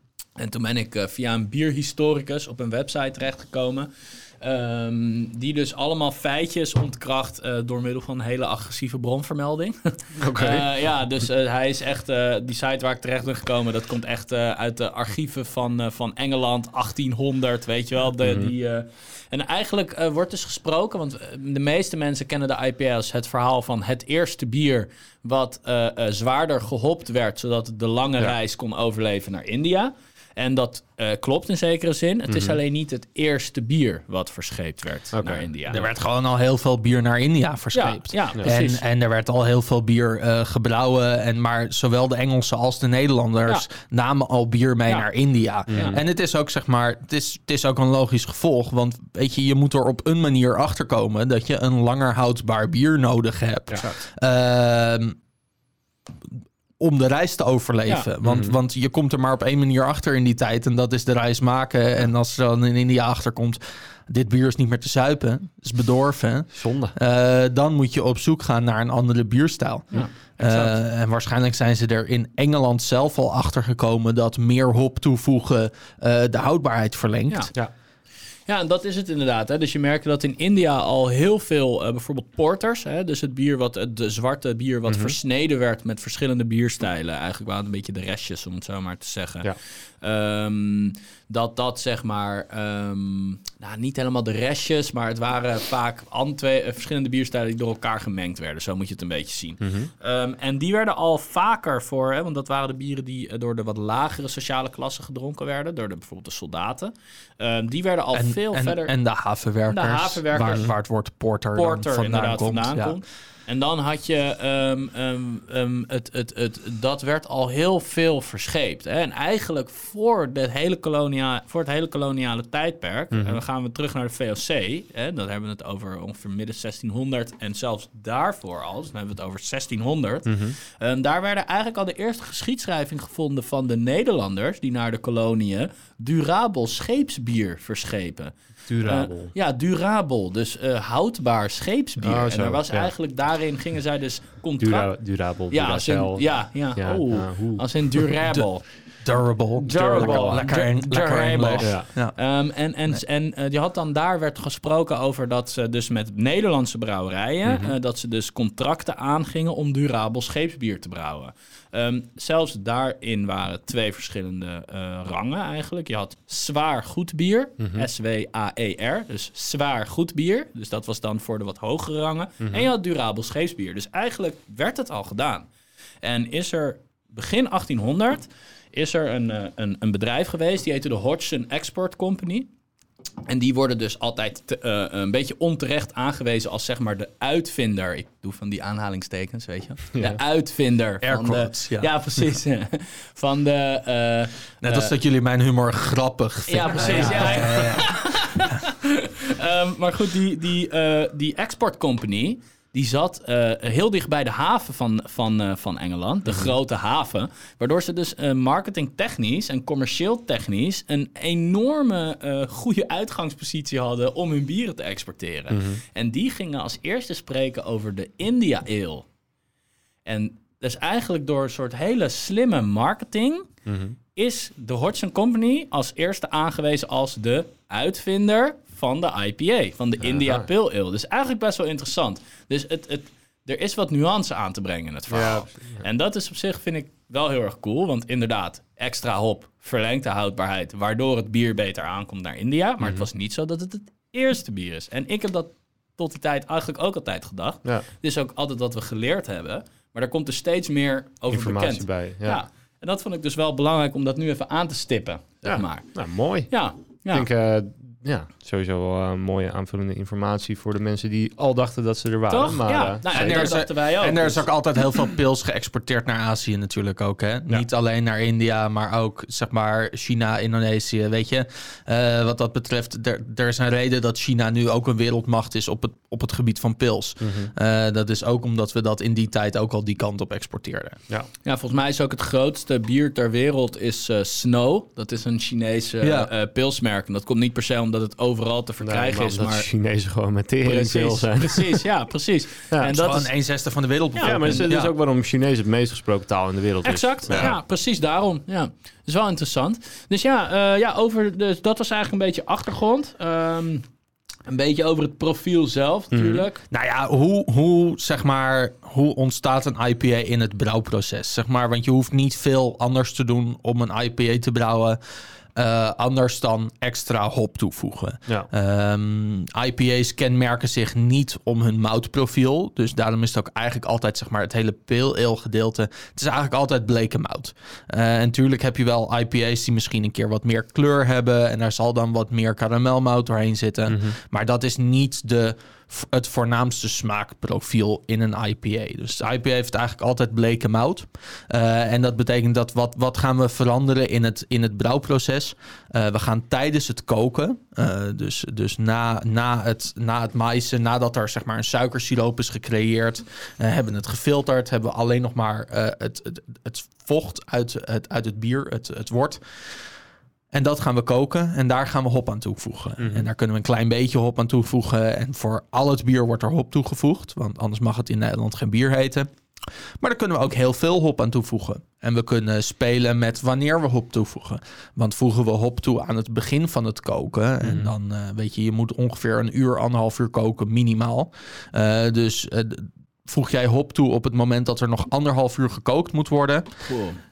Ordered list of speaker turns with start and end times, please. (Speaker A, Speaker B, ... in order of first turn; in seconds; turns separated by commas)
Speaker A: 0.4-35.8, Speaker B: 10.2-10.7, Speaker B: 18.2-18.5, Speaker B: 32.3-32.6, Speaker B: 35.1-35.5, Speaker C: 35.7-55.2, Speaker A: 37.7-38.8, Speaker A: 45.7-46.0, Speaker B: 45.7-46.0, Speaker C: 56.8-77.5, Speaker B: 58.2-58.6, Speaker B: 66.5-66.9, Speaker A: 69.9-70.7, Speaker A: 78.5-108.9, Speaker B: 84.9-85.2, Speaker B: 99.6-99.9, Speaker C: 108.1-113.0, Speaker A: 109.7-110.7, Speaker A: 111.5-144.9, Speaker B: 123.1-123.4, Speaker B: 130.3-130.6, Speaker B: 138.7-139.3, Speaker B: 142.0-142.9, Speaker B: 144.6-148.1, Speaker A: 145.5-148.7, Speaker C: 149.0-152.2, Speaker A: 149.6-175.5, Speaker B: 149.7-150.5, Speaker B: 151.6-151.9, Speaker B: 157.5-157.7, Speaker B: 167.6-167.8, Speaker B: 172.4-172.7, Speaker A: 176.0-182.5, Speaker A: 183.2-194.9, Speaker B: 189.9-190.2, Speaker C: 191.0-191.9, Speaker C: 194.6-197.9, Speaker A: 196.5-219.1, Speaker B: 215.5-215.8, Speaker A: 220.1-223.5, Speaker B: 223.7-224.0, Speaker A: 224.2-257.3, Speaker B: 230.0-230.5, Speaker B: 235.1-235.8, Speaker B: 242.8-243.1, Speaker B: 251.3-252.4, Speaker B: 255.4-263.6, Speaker A: 262.3-264.5, Speaker C: 263.1-281.0, Speaker B: 277.2-277.5, Speaker A: 281.4-289.7, Speaker C: 286.0-286.3, Speaker B: 288.8-291.8, Speaker A: 290.6-293.3, Speaker C: 292.9-294.9, Speaker A: 294.1-294.6, Speaker B: 294.2-297.6, Speaker A: 296.9-303.9, Speaker A: 304.5-306.6, Speaker B: 306.1-306.4, Speaker C: 306.7-315.0, Speaker C: 315.6-359.9, Speaker B: 333.9-334.2, Speaker C: 360.5-369.3, Speaker B: 363.0-363.3, Speaker C: 370.0-386.7, Speaker B: 377.6-377.9, Speaker A: 386.9-387.2